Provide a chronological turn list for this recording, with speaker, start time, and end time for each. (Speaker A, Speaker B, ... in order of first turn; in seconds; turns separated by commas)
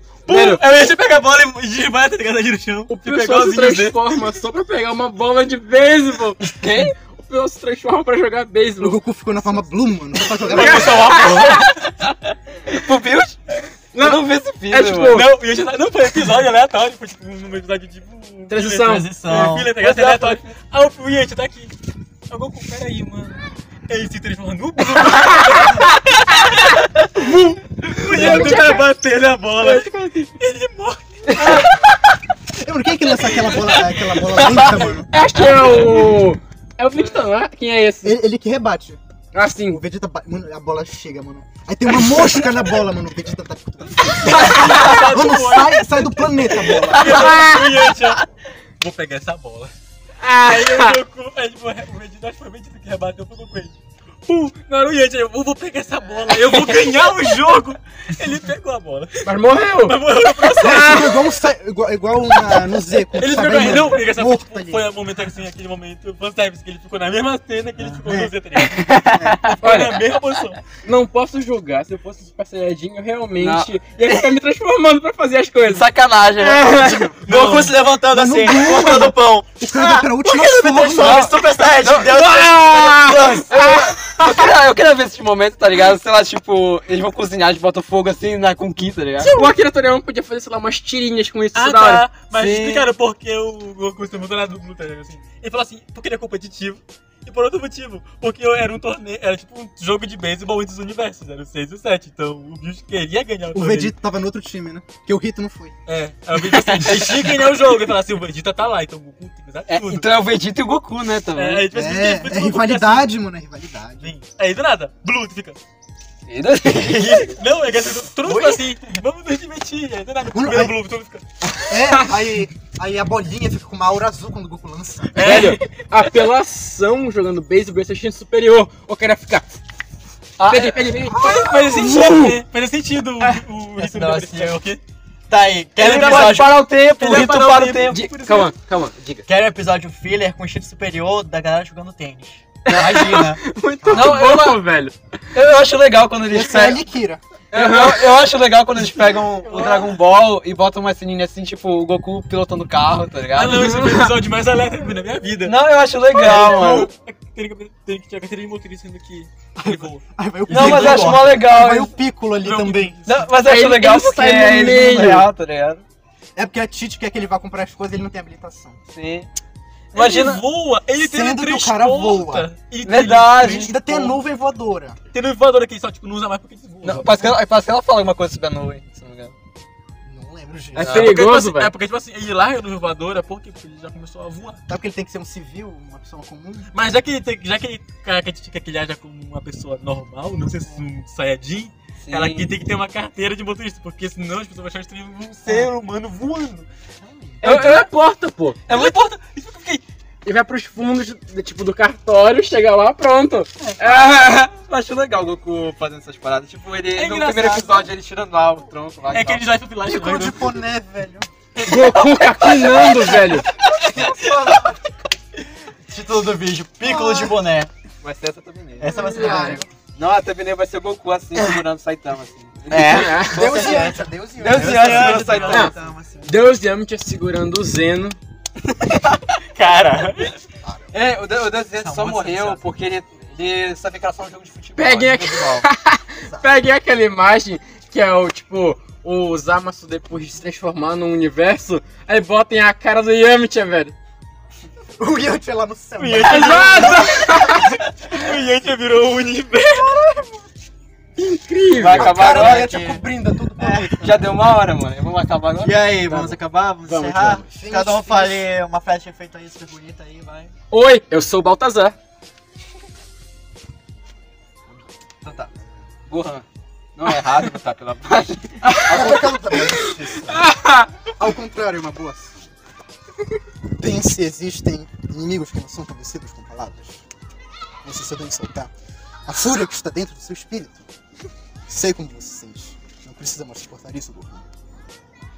Speaker A: 0.2-4.3, Speaker B: 0.3-0.6, Speaker C: 2.9-9.0, Speaker B: 6.6-6.9, Speaker D: 8.8-11.2, Speaker A: 10.4-11.9, Speaker C: 10.6-11.7, Speaker B: 12.7-15.2, Speaker C: 13.9-15.2, Speaker A: 15.0-21.7, Speaker C: 18.5-19.1, Speaker E: 18.8-19.7, Speaker B: 19.3-20.5, Speaker A: 22.3-31.8, Speaker C: 25.3-25.6, Speaker C: 27.2-28.9, Speaker B: 28.1-28.5, Speaker C: 29.6-30.3, Speaker C: 31.4-31.8, Speaker D: 32.5-35.1, Speaker C: 35.1-38.2, Speaker D: 38.0-39.0, Speaker C: 39.3-39.8, Speaker D: 39.7-47.4, Speaker A: 44.2-49.7, Speaker C: 44.3-44.8, Speaker C: 47.1-47.6, Speaker C: 50.2-51.0, Speaker A: 50.3-53.7, Speaker A: 54.2-61.1, Speaker C: 59.2-61.2, Speaker D: 60.6-64.8, Speaker A: 63.1-70.6, Speaker B: 68.7-69.6, Speaker D: 69.1-69.4, Speaker C: 69.6-70.0, Speaker C: 70.8-77.3, Speaker B: 73.4-74.3, Speaker B: 75.6-77.1, Speaker E: 77.2-83.5, Speaker A: 77.2-77.7, Speaker D: 78.1-81.3, Speaker B: 81.0-82.2, Speaker C: 82.0-84.5, Speaker B: 83.5-89.3, Speaker C: 89.2-92.1, Speaker A: 91.5-103.9, Speaker B: 92.3-92.9, Speaker D: 103.5-105.8, Speaker A: 105.9-110.1, Speaker B: 106.7-107.1, Speaker B: 109.7-111.7, Speaker A: 111.3-113.1, Speaker D: 111.7-114.1, Speaker A: 114.0-115.6, Speaker B: 116.3-117.3, Speaker A: 116.8-121.2, Speaker E: 118.2-119.0, Speaker D: 120.3-120.8, Speaker D: 121.7-125.5, Speaker A: 125.1-125.7, Speaker C: 125.2-129.4, Speaker B: 130.4-130.9, Speaker C: 130.4-132.3, Speaker A: 131.0-134.8, Speaker E: 133.8-134.6, Speaker E: 135.3-136.6, Speaker B: 135.8-138.1, Speaker A: 135.8-136.4, Speaker A: 136.9-138.5, Speaker C: 137.9-139.3, Speaker E: 139.2-143.4, Speaker C: 142.6-144.9, Speaker B: 142.7-143.2, Speaker B: 143.9-144.6, Speaker B: 145.3-146.8, Speaker D: 146.3-147.2, Speaker C: 147.5-148.1, Speaker B: 147.5-153.7, Speaker C: 149.5-149.8, Speaker A: 153.3-155.6, Speaker C: 153.5-154.1, Speaker B: 155.4-156.9, Speaker A: 156.1-160.0, Speaker D: 159.7-163.1, Speaker E: 160.5-161.3, Speaker B: 160.5-161.9, Speaker A: 162.4-162.9, Speaker B: 163.1-165.8, Speaker C: 163.4-165.3, Speaker D: 166.3-168.8, Speaker B: 168.9-169.3, Speaker A: 169.9-173.7, Speaker B: 169.9-170.4, Speaker D: 170.9-172.5, Speaker B: 172.8-174.2, Speaker D: 173.4-175.0, Speaker A: 175.1-177.4, Speaker B: 176.8-179.3, Speaker D: 180.0-181.1, Speaker C: 180.8-181.7, Speaker A: 180.8-184.6, Speaker B: 180.8-181.2, Speaker D: 184.7-186.7, Speaker A: 186.7-196.7, Speaker B: 192.0-192.5, Speaker D: 197.0-197.4, Speaker C: 197.4-198.6, Speaker B: 197.4-197.9, Speaker B: 198.7-199.0, Speaker A: 198.7-199.8, Speaker C: 200.2-204.5, Speaker B: 203.8-209.4, Speaker A: 206.9-207.9, Speaker A: 209.1-210.6, Speaker D: 209.8-211.3, Speaker C: 211.6-213.5, Speaker B: 213.9-214.3, Speaker E: 214.0-214.5, Speaker D: 214.2-214.7, Speaker E: 215.8-217.7, Speaker D: 216.8-217.3, Speaker B: 218.0-225.8, Speaker E: 218.8-219.6, Speaker C: 218.9-219.6, Speaker D: 219.0-219.6, Speaker E: 222.7-226.4, Speaker C: 222.7-223.4, Speaker D: 223.3-225.5, Speaker A: 224.9-225.7, Speaker C: 225.5-225.7, Speaker C: 226.2-228.2, Speaker A: 229.4-230.3, Speaker B: 230.9-235.7, Speaker E: 231.7-232.7, Speaker C: 234.8-243.9, Speaker D: 245.0-247.4, Speaker A: 246.0-250.0, Speaker C: 246.2-247.7, Speaker D: 249.8-250.3, Speaker C: 251.2-252.2, Speaker B: 251.8-252.8, Speaker D: 251.9-254.3, Speaker E: 252.0-253.1, Speaker E: 253.6-253.9, Speaker B: 254.0-255.8, Speaker E: 255.6-260.5, Speaker C: 256.1-257.4, Speaker D: 257.5-258.5, Speaker C: 260.7-261.9, Speaker E: 265.2-265.5, Speaker B: 266.1-266.4, Speaker B: 267.0-269.8, Speaker C: 268.6-269.2, Speaker D: 268.9-270.5, Speaker C: 270.3-270.9, Speaker D: 271.1-272.4, Speaker D: 273.8-277.0, Speaker D: 277.8-278.7, Speaker D: 279.2-280.9, Speaker D: 281.7-284.4